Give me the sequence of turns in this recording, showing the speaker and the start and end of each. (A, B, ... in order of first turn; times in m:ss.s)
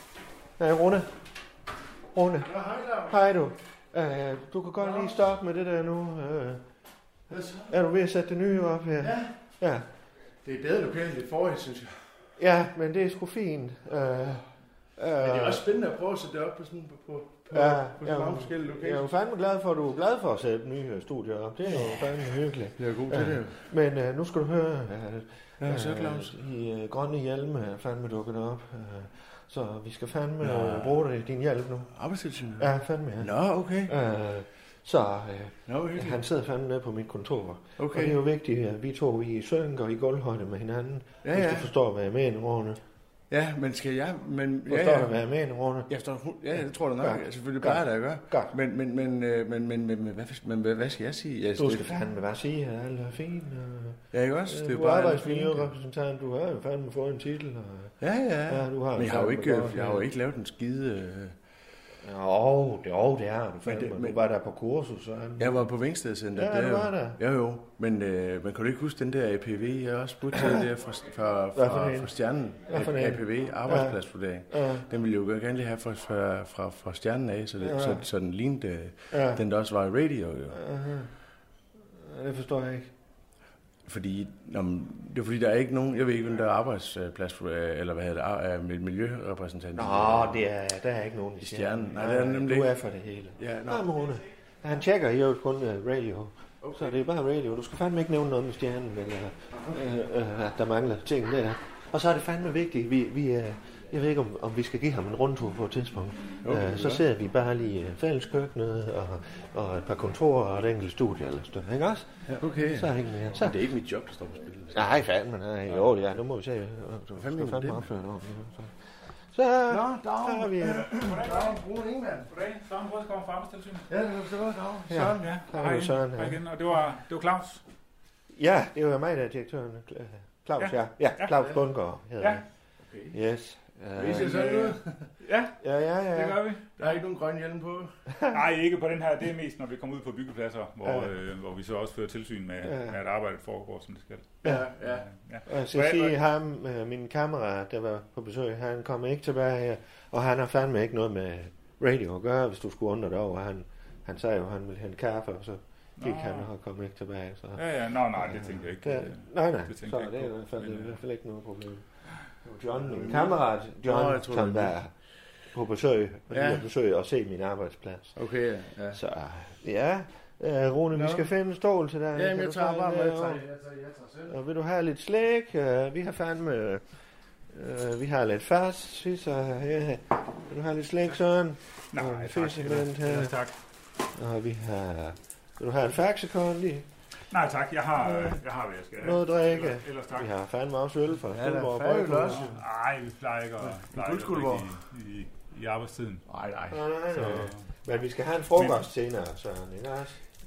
0:00.6-0:01.1 A
0:02.1-0:06.6 A
0:02.4-0:03.2 B
0:04.8-0:05.2 B
0:07.3-0:07.7 B
0:07.7-0:09.9 A
0:09.0-0:09.4 B
0:10.4-0:12.1 B
0:12.4-0:14.4 A
0:15.0-0:15.6 A
0:15.2-0:19.1 B
0:17.5-0:31.9 A
0:22.8-0:23.6 B
0:25.6-0:26.3 B
0:30.4-0:31.0 B
0:31.9-0:33.9 B
0:32.6-0:33.3 A
0:33.8-0:42.8 A
0:35.7-0:36.2 B
0:37.8-0:38.2 B
0:41.2-0:41.7 B
0:43.3-0:45.1 B
0:44.7-0:45.9 A
0:45.9-0:51.9 B
0:47.0-0:48.6 A
0:51.6-0:57.9 A
0:54.1-0:55.7 B
0:58.0-1:01.4 B
0:58.5-1:00.1 A
1:02.0-1:05.6 A
1:03.6-1:04.2 B
1:05.4-1:20.6 B
1:06.4-1:07.2 A
1:11.6-1:12.1 A
1:12.7-1:14.0 A
1:14.5-1:14.9 A
1:17.6-1:18.0 A
1:19.1-1:19.4 A
1:20.5-1:21.1 A
1:21.9-1:22.9 A
1:23.9-1:30.5 B
1:29.8-1:53.6 A
1:31.4-1:32.8 B
1:33.4-1:33.8 B
1:36.6-1:36.9 B
1:46.4-1:47.0 B
1:52.3-1:54.9 B
1:54.7-1:58.8 A
1:57.2-1:57.9 B
1:59.3-2:01.0 A
1:59.7-2:02.3 B
2:01.0-2:01.6 C
2:02.3-2:03.9 C
2:03.9-2:05.3 B
2:04.9-2:06.4 A
2:05.2-2:07.6 C
2:08.3-2:12.4 A
2:10.6-2:11.4 C
2:12.2-2:12.4 C
2:12.9-2:13.2 B
2:13.1-2:14.6 A
2:14.0-2:15.1 B
2:14.1-2:15.6 C
2:15.6-2:16.4 A
2:16.2-2:17.0 C
2:16.8-2:17.9 B
2:18.3-2:26.1 C
2:20.8-2:21.1 A
2:22.6-2:23.0 A
2:24.4-2:25.1 B
2:25.5-2:37.6 A
2:36.0-2:36.5 C
2:37.6-2:41.0 C
2:38.2-2:41.9 A
2:42.4-2:44.9 A
2:42.8-2:44.7 B
2:45.5-2:48.2 A
2:46.3-2:46.6 B
2:48.2-2:49.0 B
2:48.9-2:53.4 A
2:50.9-2:51.3 B
2:52.1-2:54.3 B
2:54.3-2:56.8 A
2:57.5-3:03.4 A
3:01.9-3:03.6 C
3:04.1-3:06.9 A
3:07.3-3:10.3 C
3:08.0-3:08.4 A
3:09.0-3:12.6 A
3:11.3-3:12.5 B
3:12.3-3:16.2 C
3:13.6-3:14.7 B
3:16.3-3:16.8 B
3:16.7-3:20.2 A
3:17.2-3:17.6 C
3:18.6-3:18.9 C